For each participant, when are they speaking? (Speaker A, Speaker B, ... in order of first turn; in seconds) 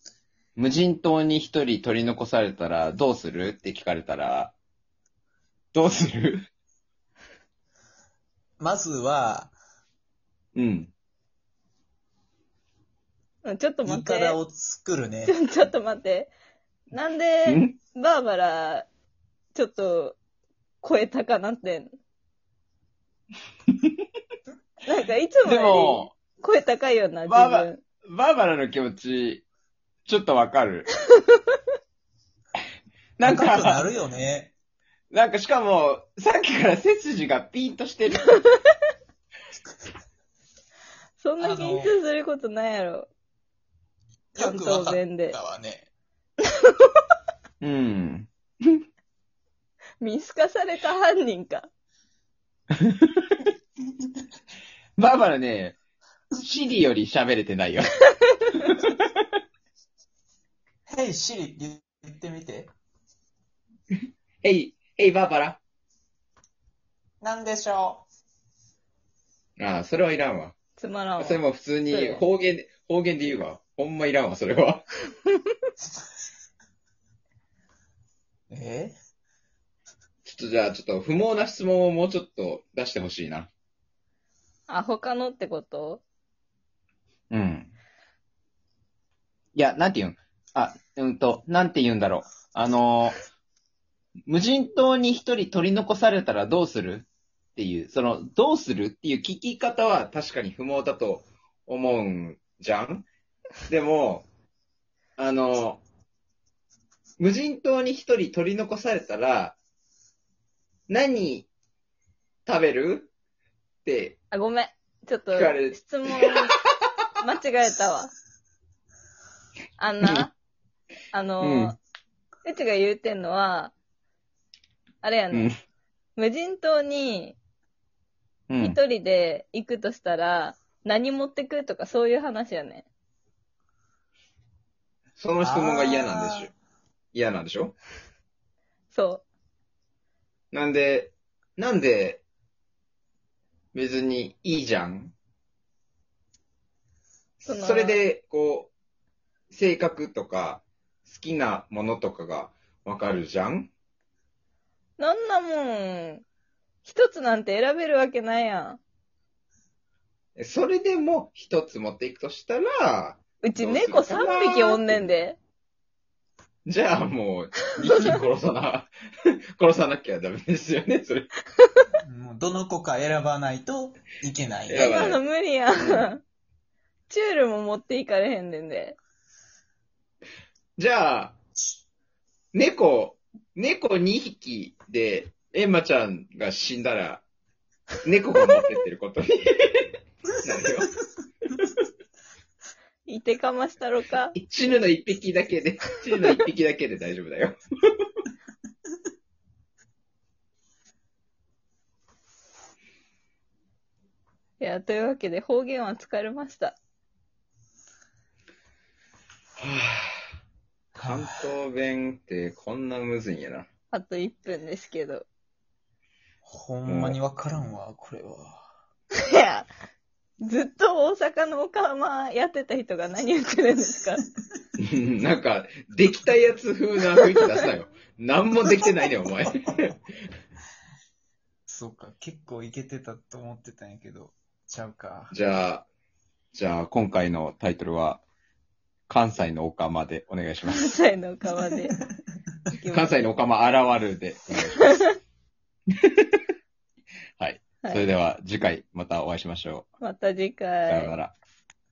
Speaker A: 0.6-4.5, 5.7-6.5, 10.5-10.9, 17.4-17.7, 25.4-26.1, 27.3-29.4, 30.1-30.9, 33.2-33.8, 35.1-38.4, 47.6-48.8, 52.9-53.2, 55.0-55.8, 56.3-57.9, 58.6-59.0, 64.4-65.6, 69.6-70.5, 71.2-74.8, 80.2-83.5, 87.3-87.7, 89.5-93.2, 94.3-103.0, 103.7-104.2, 105.2-105.8, 107.2-109.6, 110.9-111.5, 112.5-113.1, 113.8-114.2, 115.3-116.7, 121.4-121.7, 128.5-128.8, 135.2-136.5, 137.1-137.7, 140.5-142.2, 143.7-145.1, 147.4-148.7, 149.5-153.7, 160.4-165.1, 166.7-168.9, 169.6-171.3, 174.7-175.2, 175.8-176.1, 180.8-181.3, 182.5-187.2, 188.0-189.8, 190.4-190.9, 194.3-197.6, 209.6-210.1, 210.9-213.7, 216.8-217.2, 224.8-229.9, 235.3-235.8, 236.5-238.2, 239.1-240.9, 242.9-244.9, 247.4-249.9, 250.9-251.3
Speaker B: 8.6-9.5, 13.8-15.3, 33.2-34.5, 41.4-41.9, 44.3-45.9, 60.9-62.7, 67.2-68.0, 78.5-79.0, 135.4-136.5, 172.0-175.2, 210.9-211.4, 216.4-218.7, 231.7-235.3, 241.6-242.2
Speaker C: 13.4-14.4, 15.2-16.3, 16.9-18.9, 19.5-20.2, 20.8-21.9, 24.9-27.8, 31.1-31.6, 41.2-43.1, 44.4-45.4, 50.0-51.7, 70.8-72.2, 84.7-86.0, 114.3-116.5, 117.2-118.1, 119.8-120.3, 121.1-121.8, 122.4-123.7, 125.0-125.5, 126.2-127.4, 128.6-132.8, 138.9-139.2, 147.4-148.0, 155.0-156.2, 156.8-158.8, 163.4-165.4, 174.7-176.2, 177.1-178.9, 193.1-194.4, 204.6-206.8, 213.9-215.2, 219.2-219.7, 220.4-224.2, 240.7-242.0, 242.7-243.2, 244.8-245.1, 250.0-251.1